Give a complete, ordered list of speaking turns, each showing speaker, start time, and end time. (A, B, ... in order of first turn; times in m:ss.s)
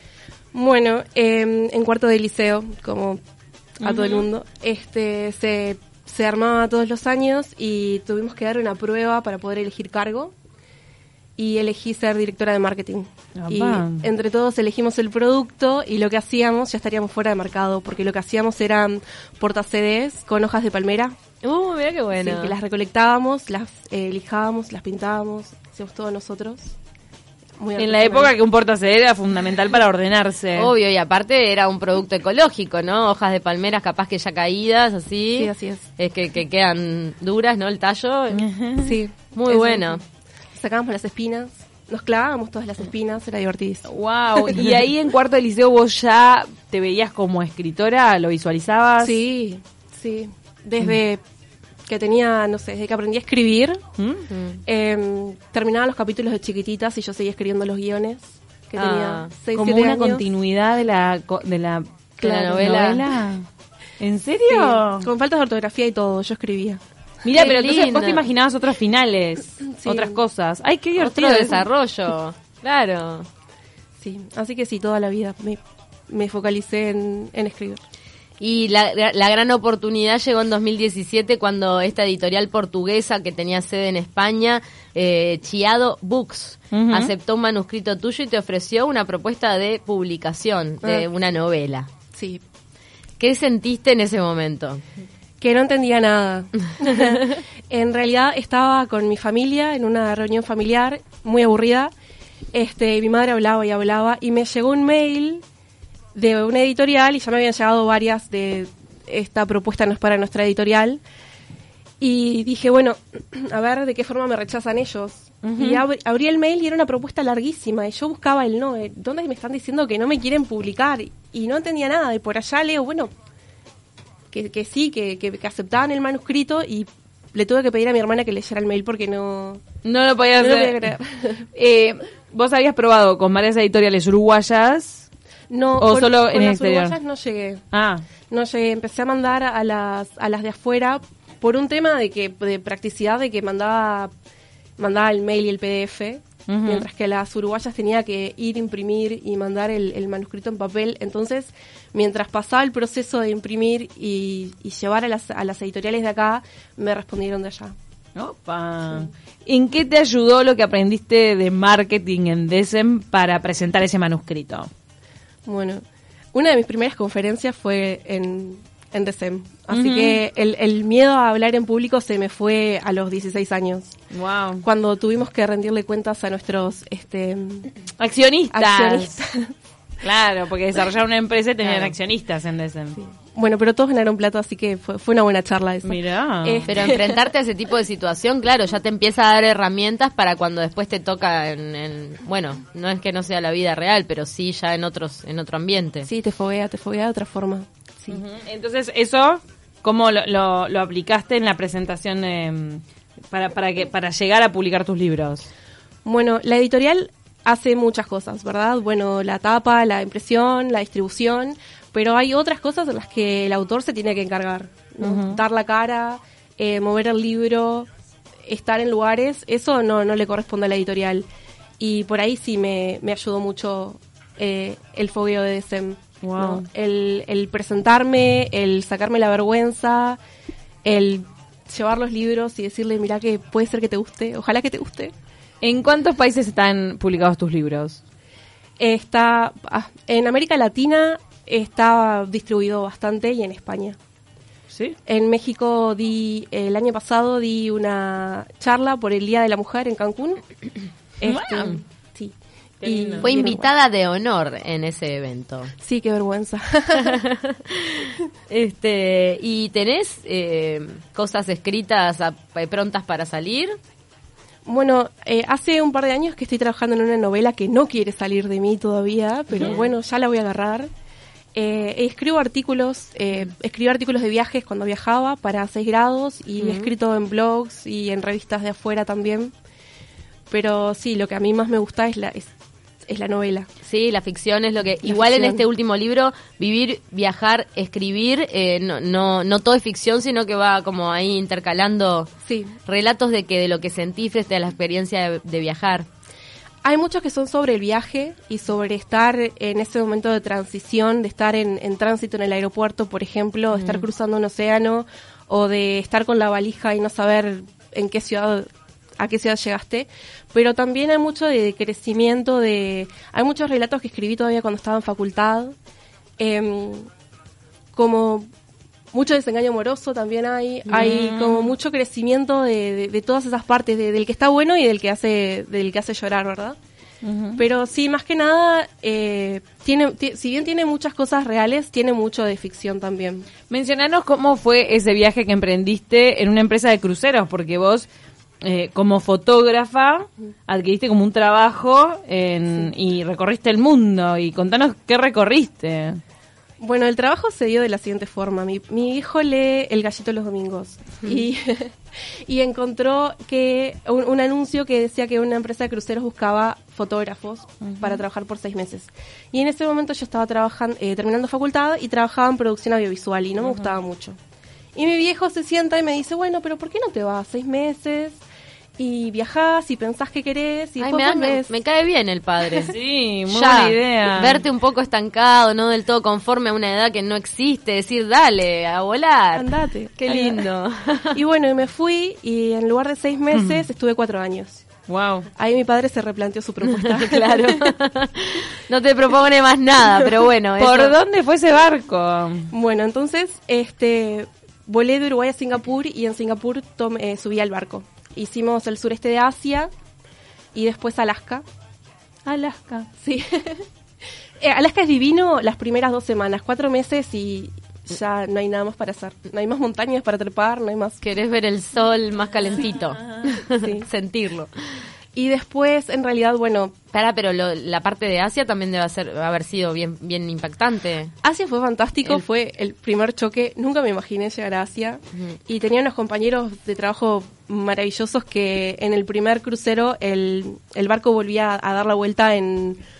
0:00.5-0:03.2 A
0:03.8-0:10.3 A
0:03.8-0:04.3 B
0:11.4-0:21.2 A
0:13.4-0:14.0 B
0:21.4-0:22.6 C
0:22.2-0:26.7 A
0:27.6-0:28.3 A
0:27.8-0:30.7 B
0:30.5-0:38.4 C
0:35.4-0:35.9 A
0:38.3-0:39.0 B
0:38.8-0:40.0 A
0:39.3-0:40.0 C
0:40.5-0:43.8 A
0:43.8-0:49.2 B
0:49.0-0:51.2 A
0:51.9-0:53.8 A
0:54.0-0:54.2 B
0:54.3-0:54.6 C
0:54.6-1:00.2 A
0:58.8-0:59.3 C
0:59.5-1:03.4 B
1:02.2-1:03.0 C
1:02.2-1:02.6 A
1:04.0-1:05.1 B
1:04.5-1:06.8 A
1:07.2-1:11.7 B
1:07.3-1:08.2 C
1:09.6-1:10.2 A
1:11.0-1:13.3 C
1:14.0-1:17.8 A
1:18.4-1:31.9 C
1:26.7-1:27.1 B
1:30.8-1:31.1 A
1:32.1-1:32.4 A
1:33.2-1:34.8 C
1:35.4-1:41.9 A
1:42.5-1:45.4 A
1:46.1-1:51.0 A
1:52.0-2:03.1 A
1:55.4-1:55.8 B
2:04.3-2:09.6 A
2:09.8-2:10.9 B
2:10.4-2:11.5 A
2:11.5-2:15.1 B
2:15.5-2:17.6 A
2:15.8-2:17.0 B
2:17.7-2:18.0 B
2:18.3-2:24.1 A
2:24.8-2:37.7 A
2:26.5-2:26.9 B
2:38.2-2:44.7 B
2:45.4-2:45.8 A
2:46.3-2:53.9 A
2:49.7-2:50.2 B
2:54.1-2:54.6 B
2:54.6-2:57.7 A
2:58.0-2:59.2 B
2:58.5-2:59.5 A
3:00.0-3:03.0 B
3:01.6-3:01.9 C
3:03.3-3:07.2 A
3:05.8-3:06.7 B
3:06.7-3:16.1 C
3:16.0-3:18.2 A
3:18.1-3:25.5 B
3:26.0-3:37.9 A
3:35.0-3:35.4 B
3:38.4-3:41.3 A
3:41.8-3:50.2 A
3:46.2-3:46.6 B
3:50.8-3:55.1 A
3:55.6-3:58.0 B
3:58.8-4:04.0 A
4:04.7-4:05.0 B
4:05.1-4:10.4 A
4:11.2-4:13.7 A
4:11.2-4:11.8 B
4:12.8-4:13.3 B
4:13.2-4:15.7 C
4:15.8-4:17.2 A
4:17.0-4:23.8 C
4:24.6-4:30.9 A
4:29.6-4:29.9 C
4:31.5-4:39.5 A
4:36.6-4:36.9 C
4:40.5-4:42.5 A
4:43.0-4:43.7 A
4:43.8-4:52.3 C
4:45.0-4:45.6 A
4:52.4-4:52.8 A
4:52.8-4:56.1 C
4:56.8-5:08.7 A
5:03.7-5:04.0 C
5:09.2-5:15.7 A
5:16.4-5:17.1 A
5:17.9-5:18.5 A
5:19.1-5:26.8 A
5:20.9-5:21.7 B
5:27.2-5:27.6 B
5:27.6-5:33.5 A
5:33.7-5:38.1 B
5:38.6-5:46.2 B
5:46.8-5:51.9 A
5:52.5-6:04.4 A
5:57.8-5:58.2 B
6:03.6-6:03.9 B
6:04.9-6:08.4 A
6:09.0-6:11.7 A
6:11.0-6:12.9 C
6:12.9-6:14.6 B
6:13.5-6:21.4 C
6:19.5-6:20.6 A
6:21.3-6:24.8 A
6:23.5-6:23.8 B
6:25.1-6:25.5 B
6:25.6-6:27.9 A
6:26.8-6:31.2 C
6:30.8-6:32.7 B
6:32.7-6:39.9 A
6:40.7-6:41.6 A
6:42.4-6:43.1 B
6:43.2-6:43.8 A
6:44.6-6:51.2 A
6:51.2-6:54.7 C
6:53.8-6:54.1 A
6:55.3-6:57.0 A
6:57.1-7:01.3 C
7:01.4-7:13.0 A